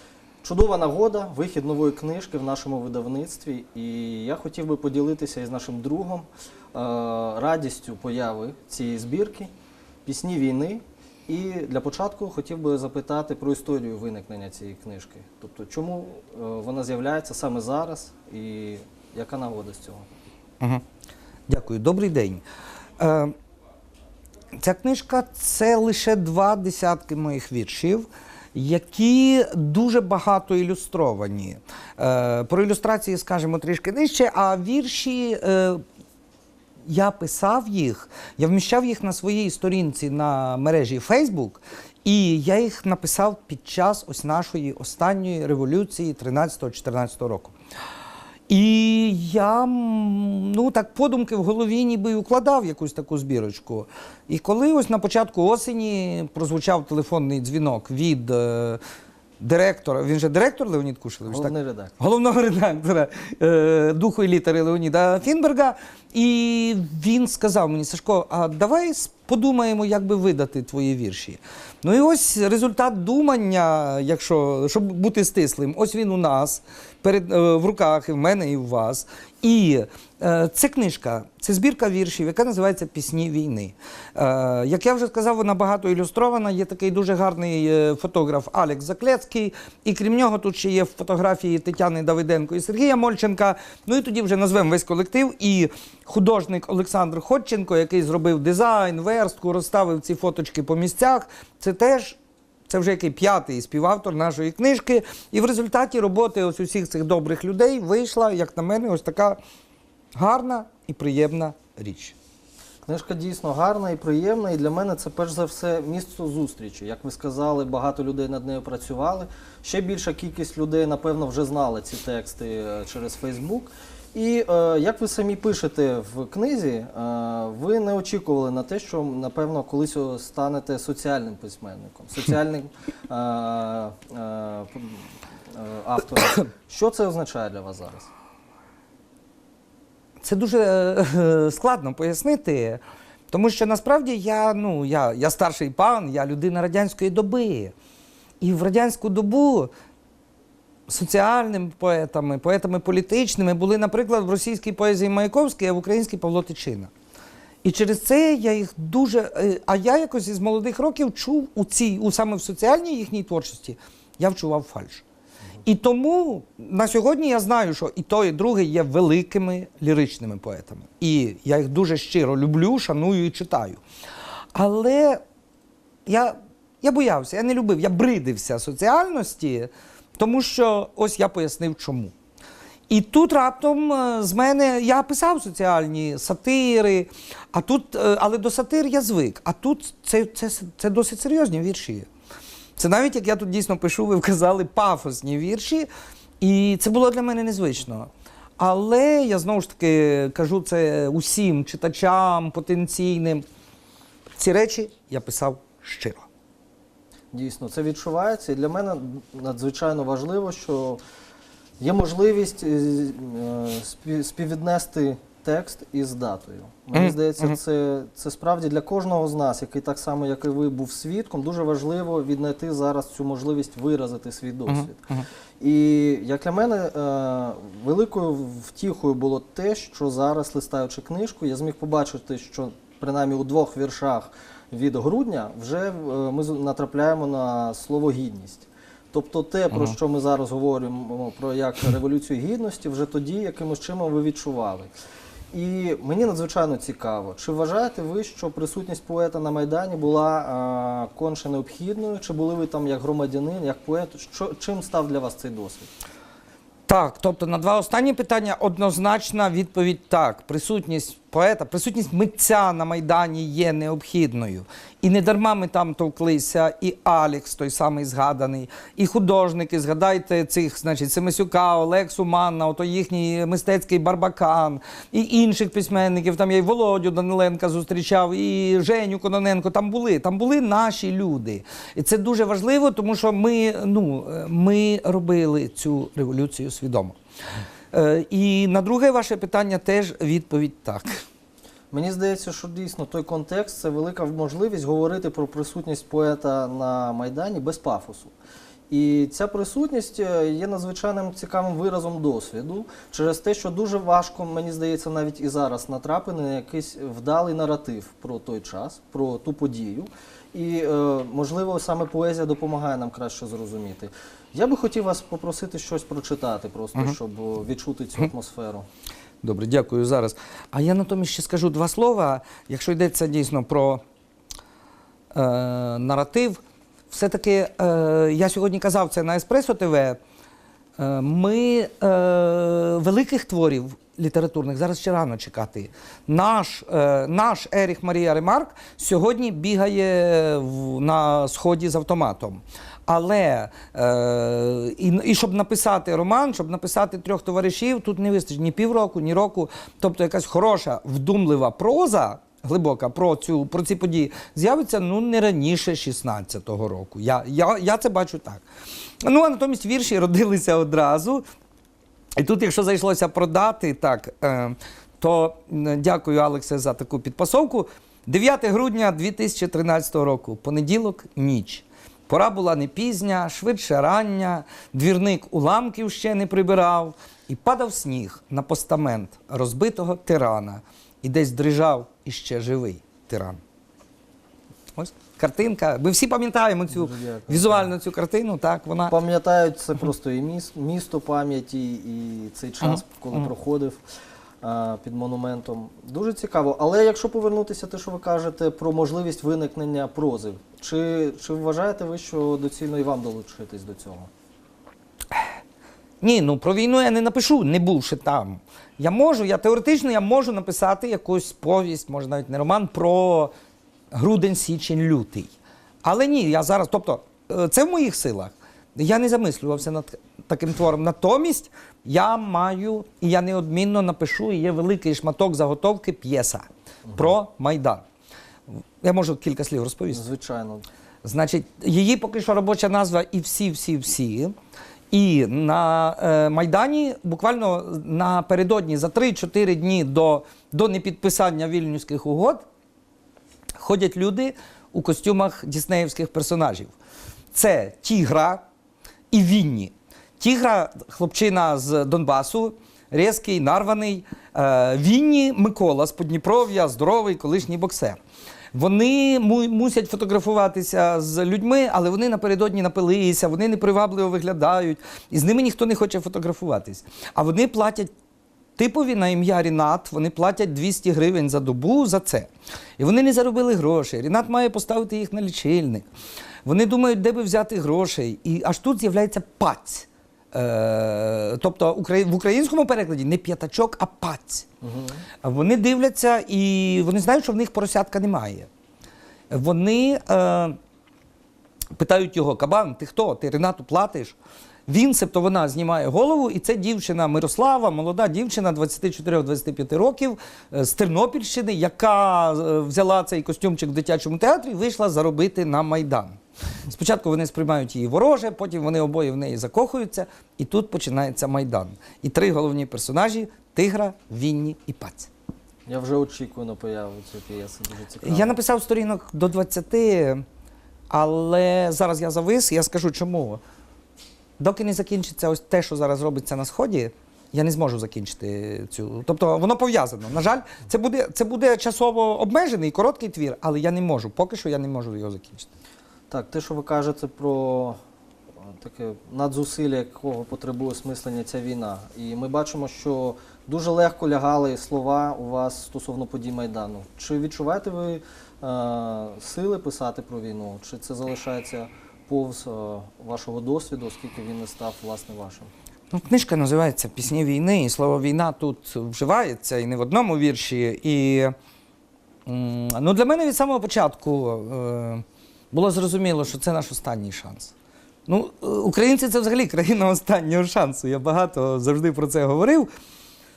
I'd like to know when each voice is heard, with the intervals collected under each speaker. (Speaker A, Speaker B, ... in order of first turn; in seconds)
Speaker A: 0.4-9.5, 10.1-20.1, 61.3-61.9, 112.8-138.1, 207.3-211.0, 211.8-225.0, 225.6-244.9, 245.5-255.9, 291.9-298.3, 298.9-318.9, 386.9-387.9, 389.1-394.0, 394.6-404.3, 430.1-430.8, 484.8-485.2, 515.9-518.5, 536.3-538.0, 538.7-555.7
Speaker B: 21.5-22.4, 23.0-23.3, 24.6-35.8, 36.9-47.5, 48.5-58.8, 59.4-102.2, 102.7-109.4, 110.1-112.1, 140.2-147.7, 148.4-149.7, 150.9-156.9, 157.6-165.0, 165.6-173.8, 174.5-175.2, 176.1-182.1, 182.9-192.1, 192.8-195.9, 196.4-203.4, 204.4-206.2, 216.9-217.6, 224.7-225.2, 256.9-287.1, 287.9-291.1, 319.4-324.0, 325.3-326.6, 327.1-330.2, 331.0-358.6, 359.2-361.4, 362.4-383.6, 384.9-389.1, 406.2-413.5, 414.1-415.5, 416.0-428.0, 429.0-430.2, 431.2-434.5, 435.1-442.6, 443.8-446.9, 447.5-448.6, 449.3-458.2, 458.7-468.1, 468.8-476.1, 476.6-484.6, 485.4-488.7, 489.5-490.8, 491.9-494.4, 494.9-506.4, 506.9-515.3, 518.2-520.4, 521.1-523.6, 524.6-535.7, 556.1-561.5, 562.5-567.7, 568.3-572.9